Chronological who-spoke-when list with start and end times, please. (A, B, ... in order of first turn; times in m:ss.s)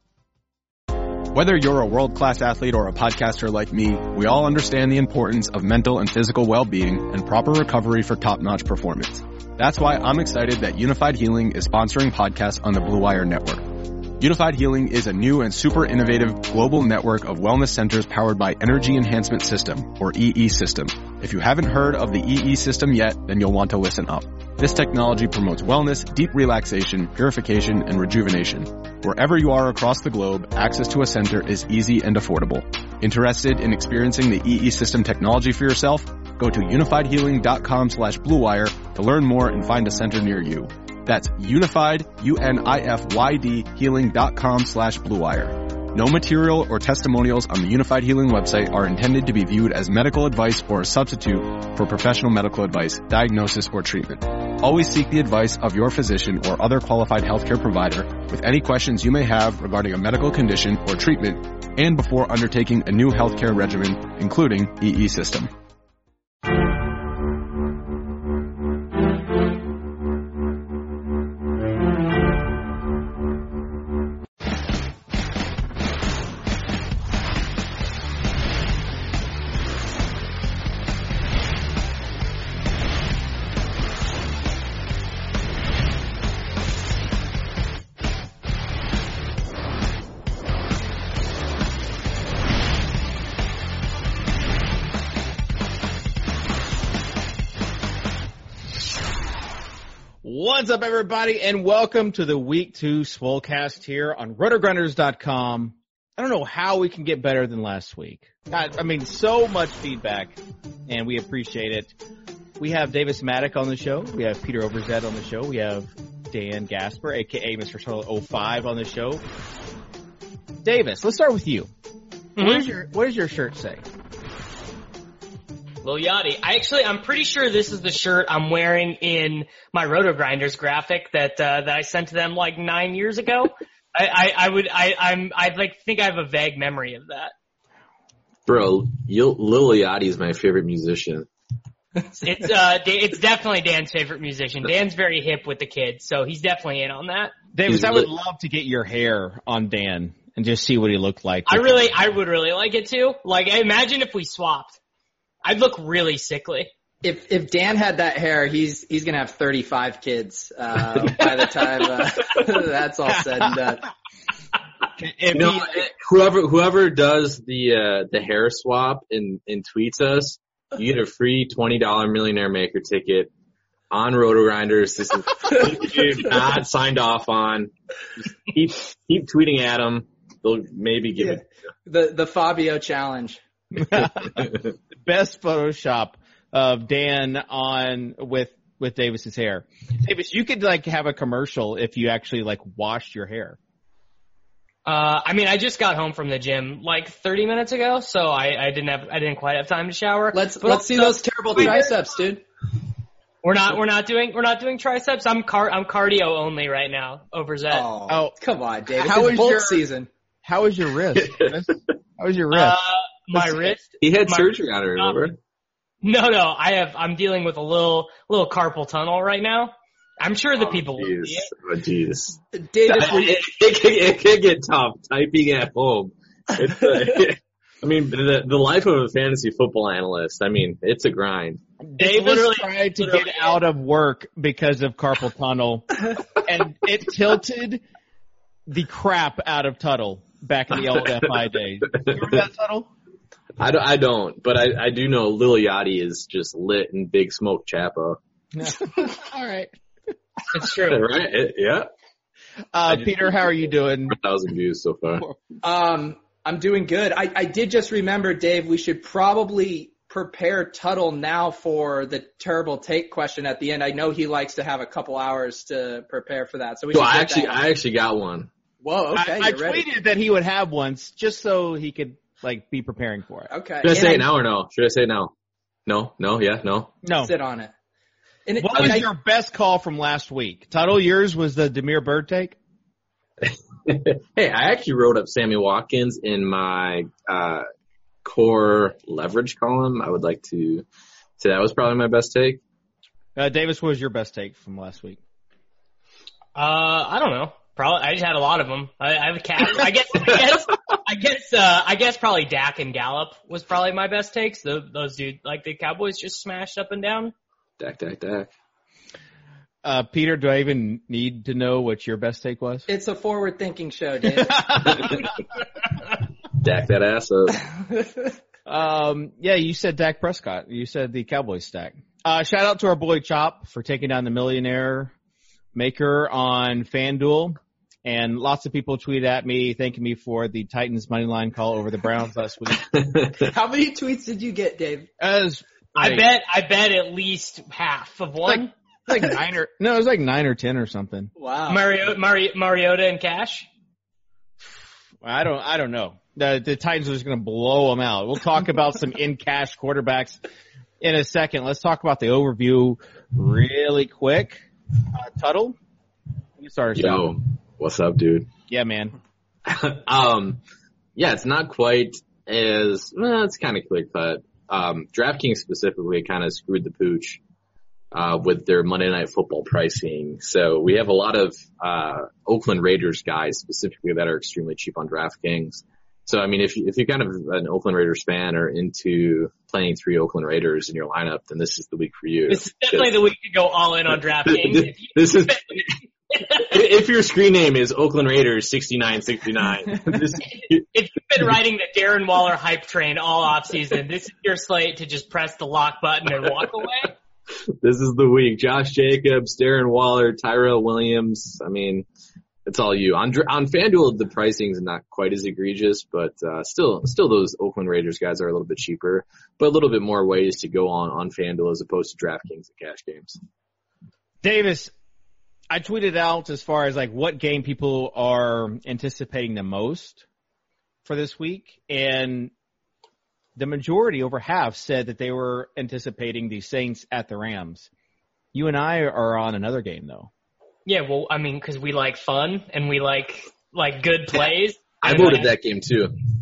0:01.3-1:05.5 A
1:40.2-1:51.9 B
1:52.6-1:59.2 B
2:00.6-2:01.7 B
2:02.4-2:02.7 C
2:02.4-2:03.8 B
2:05.8-2:17.3 C
2:18.5-2:21.3 D
2:22.2-2:27.4 C
2:27.5-2:31.8 B
2:27.7-2:28.1 D
2:31.5-2:34.8 C
2:35.4-2:36.7 C
2:37.0-2:43.8 E
2:45.0-2:45.9 B
2:45.3-2:53.3 D
2:53.9-3:01.4 D
3:01.2-3:03.4 E
3:03.8-3:13.6 B
3:14.8-3:21.9 C
3:20.3-3:22.4 E
3:23.4-3:27.9 C
3:27.7-3:30.1 E
3:28.1-3:28.3 B
3:29.0-3:29.8 B
3:30.4-3:32.8 B
3:32.5-3:35.3 C
3:33.3-3:33.7 B
3:34.0-3:35.4 D
3:36.0-3:41.5 C
3:40.6-3:51.6 D
3:42.5-3:43.4 E
3:51.8-3:57.8 B
3:52.0-3:53.6 C
3:58.7-4:02.9 B
4:03.6-4:08.2 D
4:08.6-4:09.7 B
4:10.5-4:11.1 C
4:10.8-4:11.9 D
4:12.7-4:14.2 B
4:12.9-4:13.5 D
4:14.1-4:15.3 D
4:15.6-4:27.6 E
4:26.9-4:28.5 D
4:28.8-4:29.8 E
4:29.1-4:33.5 B
4:33.5-4:34.3 E
4:33.8-4:35.3 D
4:35.9-4:37.0 D
4:37.0-4:37.3 B
4:37.2-4:37.7 E
4:38.5-4:39.1 E
4:38.6-4:42.6 B
4:43.4-4:47.7 D
4:48.2-4:50.9 D
4:51.4-4:52.6 D
4:53.4-4:55.2 B
4:56.6-5:07.3 C
5:07.8-5:08.5 D
5:09.8-5:12.9 B
5:12.9-5:15.1 E
5:14.6-5:15.2 B
5:14.9-5:15.2 D
5:16.6-5:17.6 D
5:17.9-5:18.3 E
5:18.7-5:25.1 B
5:25.8-5:32.8 B
5:32.9-5:33.4 D
5:33.4-5:35.1 E
5:35.2-5:36.2 B
5:36.0-5:38.7 C
5:38.4-5:41.3 B
5:41.4-5:41.8 E
5:41.7-5:43.7 C
5:45.2-5:50.4 B
5:51.0-5:55.8 B
5:56.6-5:57.3 B
5:57.0-5:58.5 D
5:58.7-5:59.1 B
5:59.6-6:00.6 D
6:01.2-6:07.4 D
6:08.1-6:23.2 D
6:22.5-6:26.6 C
6:24.4-6:30.8 D
6:30.6-6:37.1 C
6:37.8-6:42.1 D
6:42.7-6:53.4 D
6:54.4-6:54.9 B
6:55.7-7:00.2 B
7:01.0-7:02.5 B
7:03.6-7:07.9 B
7:08.5-7:10.3 B
7:10.9-7:15.5 C
7:15.0-7:16.2 D